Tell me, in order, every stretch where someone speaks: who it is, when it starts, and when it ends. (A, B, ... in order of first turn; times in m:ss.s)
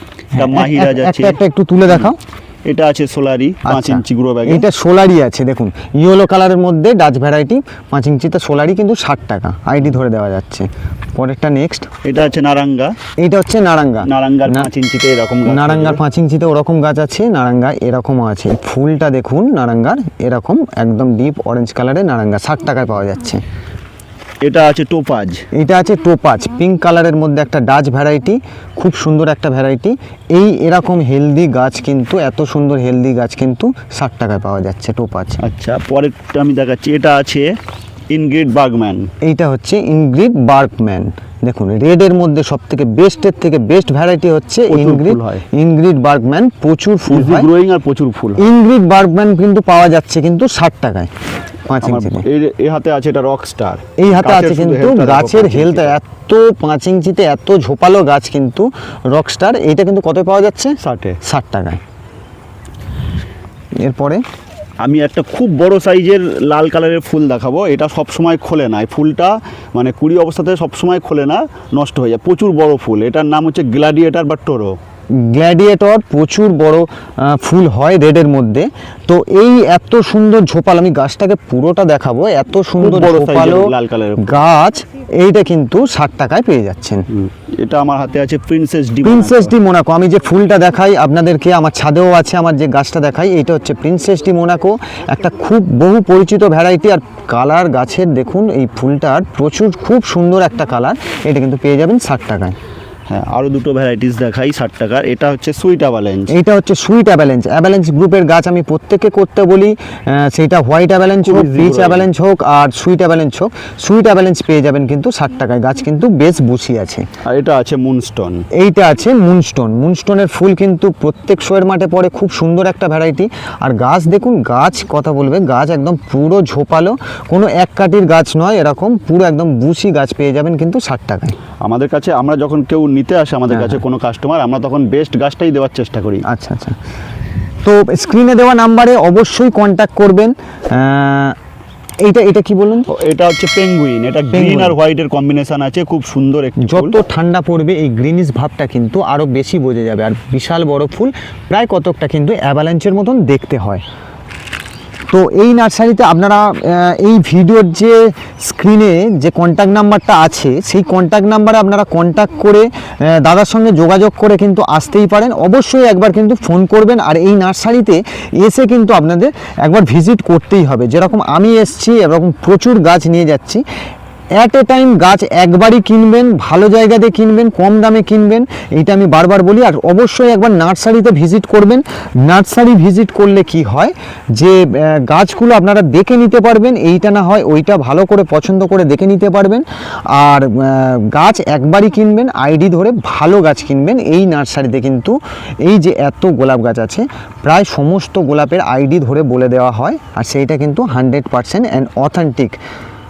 0:00.3-0:01.4 A
0:00.4-0:02.2 B
0:02.7-0:04.7 A
0:03.6-0:11.9 B
0:12.0-0:13.0 A
0:13.2-0:14.7 B
0:14.0-0:16.0 A
0:15.4-0:23.4 B
0:24.4-0:25.4 A
0:25.5-0:35.4 B
0:35.4-0:37.6 A
0:38.1-0:39.1 A
0:39.2-0:47.5 B
0:44.7-0:45.4 A
0:47.1-0:48.5 A
0:48.4-0:51.1 B
0:51.7-0:52.2 B
0:51.8-0:56.0 A
0:54.0-1:01.8 B
1:00.8-1:01.2 A
1:03.8-1:04.2 B
1:04.8-1:14.8 A
1:15.2-1:27.1 B
1:22.8-1:24.4 A
1:27.1-1:29.5 A
1:29.0-1:42.6 B
1:43.1-1:46.3 A
1:46.3-1:57.1 B
1:51.2-1:52.1 A
1:57.2-1:58.5 A
1:58.6-2:11.4 B
2:11.6-2:16.2 A
2:13.5-2:13.8 B
2:16.2-2:16.8 B
2:17.6-2:21.4 B
2:22.0-2:22.9 B
2:22.9-2:27.0 A
2:24.3-2:24.8 B
2:26.6-2:33.8 B
2:35.1-2:53.6 B
2:54.4-3:22.6 B